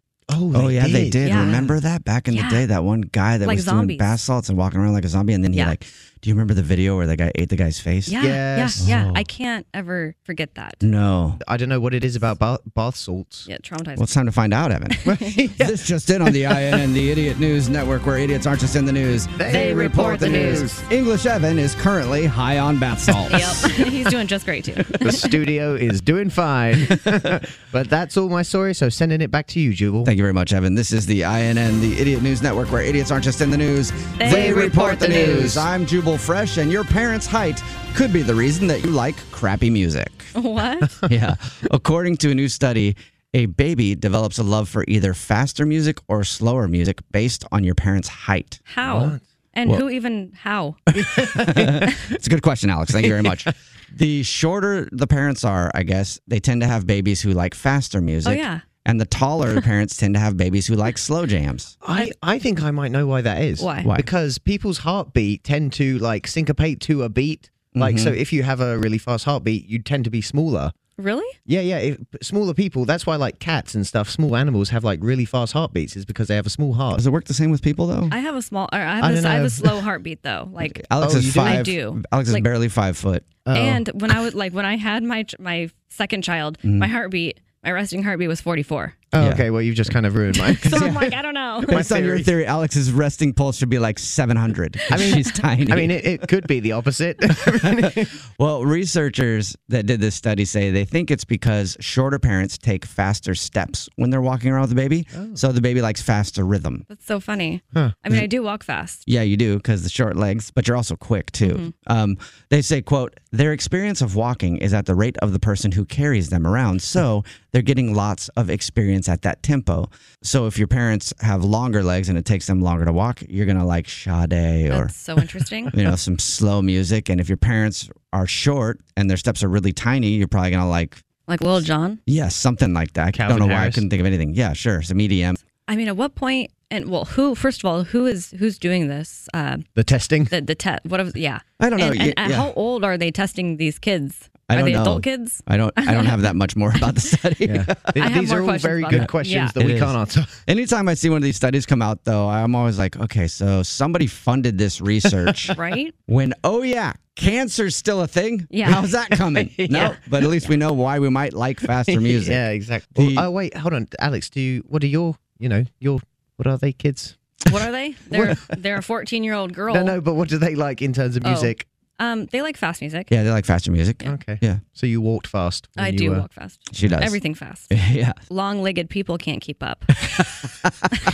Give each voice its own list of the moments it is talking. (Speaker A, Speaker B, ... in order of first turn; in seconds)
Speaker A: 0.3-1.7, 8.2-9.1, 11.4-13.5, 15.0-16.3, 19.4-20.8, 25.0-30.1, 34.2-35.6, 48.8-49.2, 51.1-51.9, 53.0-53.5, 61.8-70.7, 71.5-77.0, 79.0-79.8, 81.0-81.7, 83.4-83.8, 89.1-91.1, 91.6-92.3, 94.9-98.1, 105.1-105.4, 133.1-133.8, 139.8-140.3, 147.4-150.3, 159.1-160.0, 161.7-167.2, 168.1-168.4, 169.7-171.7, 174.0-176.3
Speaker B: 0.5-8.2, 8.8-9.1, 10.8-11.4, 13.9-15.0, 15.6-23.7, 30.0-40.3, 41.1-48.6, 51.1-61.7, 63.8-64.1, 67.7-68.2, 76.9-78.1, 80.6-83.3, 86.6-86.9, 89.2-89.9, 90.6-91.1, 91.7-96.0, 97.5-106.8, 109.0-124.9, 125.7-131.0, 132.1-135.4, 141.6-142.5, 144.5-147.7, 148.9-155.5, 156.1-162.4, 162.9-163.3, 173.1-174.6, 176.7-177.2, 177.7-178.2
Speaker C: 1.2-1.6, 2.3-2.6, 3.4-4.2, 8.1-10.8, 13.5-14.1, 14.9-15.3, 19.5-20.7, 23.3-25.3, 34.2-35.6, 40.3-40.9, 48.7-50.8, 58.2-58.6, 63.6-63.9, 71.0-71.3, 78.1-82.5, 83.5-89.0, 90.5-91.8, 95.0-95.3, 106.9-109.0, 111.4-111.7, 124.7-125.7, 131.3-132.0, 135.7-139.7, 140.3-146.2, 147.9-149.6, 155.5-155.9, 158.5-158.9, 159.7-160.5, 167.4-170.0, 171.2-173.1, 175.8-177.7, 178.3-179.9